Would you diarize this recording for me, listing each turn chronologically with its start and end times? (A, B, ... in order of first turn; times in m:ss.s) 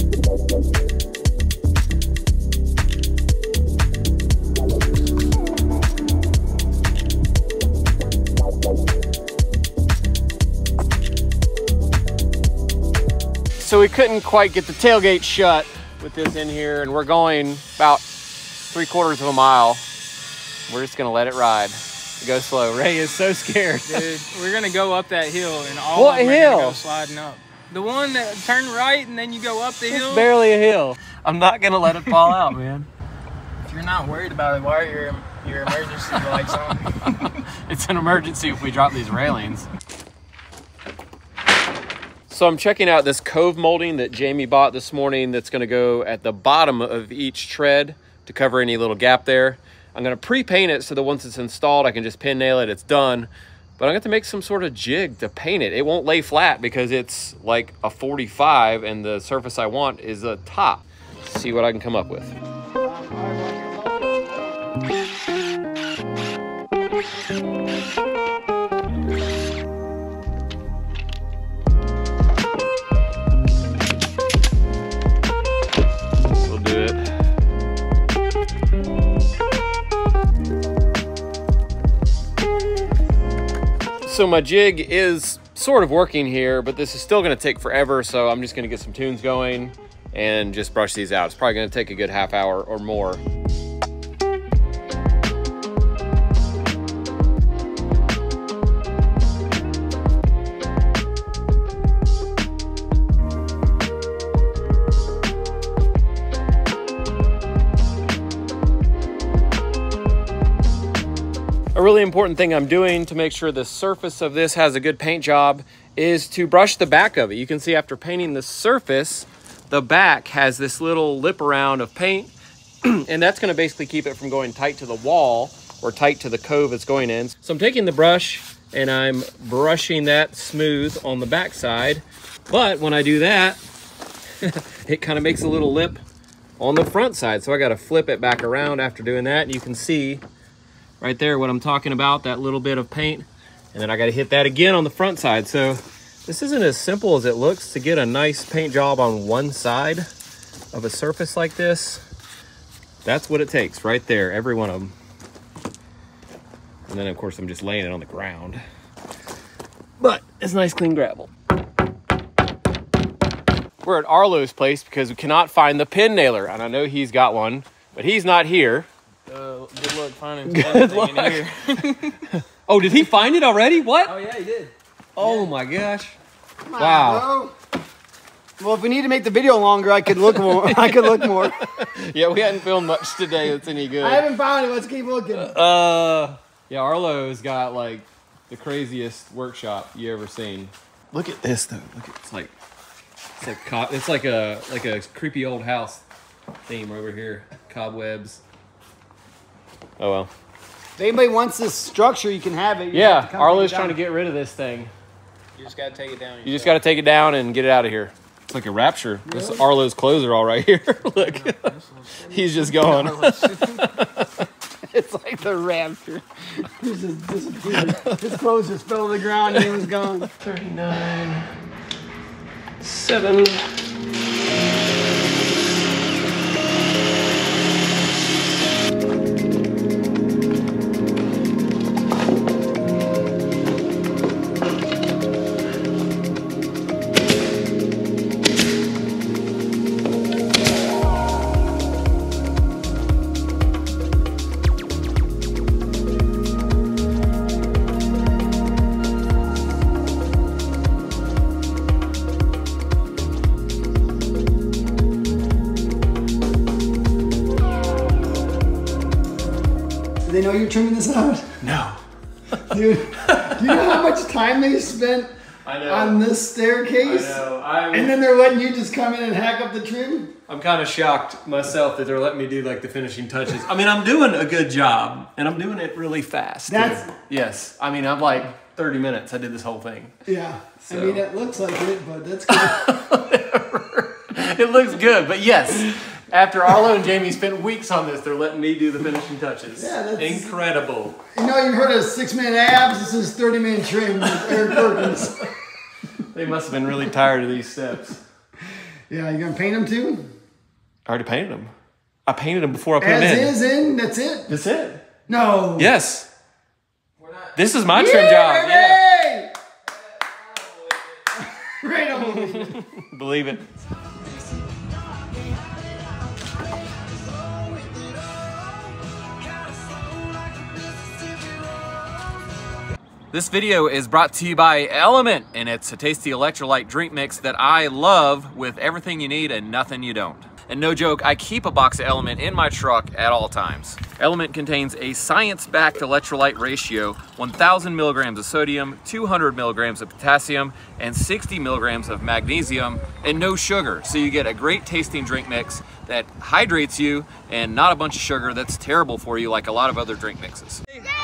0:13.6-0:18.0 A
0:18.6-0:19.8 A
0:20.7-0:24.1 A
0:23.8-0:30.3 B
0:25.9-0:26.8 A
0:29.9-0:32.9 A
0:33.6-0:37.3 B
0:37.0-0:39.7 A
0:42.3-1:02.4 A
1:02.7-1:04.8 C
1:16.4-1:17.2 A
1:24.0-1:33.2 A
1:51.7-2:02.3 A
2:02.8-2:13.6 A
2:14.4-2:16.0 A
2:16.6-2:20.2 A
2:21.0-2:30.1 A
2:30.7-2:32.0 A
2:33.0-2:34.9 A
2:36.9-2:38.6 A
2:40.0-2:41.3 A
2:43.8-2:48.9 A
2:49.3-2:52.2 B
2:50.4-2:54.1 A
2:54.0-2:55.5 B
2:55.1-2:56.2 A
2:56.6-2:57.5 C
2:56.8-2:57.3 A
2:58.6-3:01.6 C
3:00.3-3:04.2 A
3:04.0-3:05.6 C
3:05.3-3:12.5 A
3:13.4-3:16.0 A
3:16.7-3:18.4 A
3:20.0-3:20.3 A
3:21.0-3:24.0 C
3:22.9-3:24.9 A
3:25.6-3:26.8 B
3:26.4-3:31.7 A
3:29.3-3:29.6 C
3:31.2-3:33.9 B
3:32.3-3:34.5 A
3:34.9-3:40.3 C
3:37.8-3:38.3 A
3:40.4-3:41.5 A
3:42.8-3:43.6 A
4:20.2-4:21.5 C
4:21.6-4:22.0 A
4:22.7-4:25.3 C
4:23.2-4:23.8 A
4:25.6-4:26.2 A
4:25.8-4:30.3 C
4:27.0-4:28.2 A
4:30.5-4:40.1 A
4:36.7-4:37.1 C
4:40.2-4:42.9 C
4:40.9-4:41.2 A
4:42.5-4:51.2 A
4:49.8-4:50.5 C
4:51.3-4:55.5 C
4:54.3-4:55.4 A
4:56.2-4:58.2 A
4:59.1-5:00.3 C
5:01.0-5:01.7 A
5:02.2-5:03.5 A
5:03.0-5:04.5 C
5:04.5-5:05.1 A
5:05.3-5:05.9 C
5:05.8-5:06.3 A
5:07.2-5:07.5 B
5:07.5-5:09.0 A
5:07.9-5:09.5 C
5:10.2-5:11.0 B
5:11.4-5:12.8 C
5:12.1-5:13.6 A
5:23.3-5:51.0 A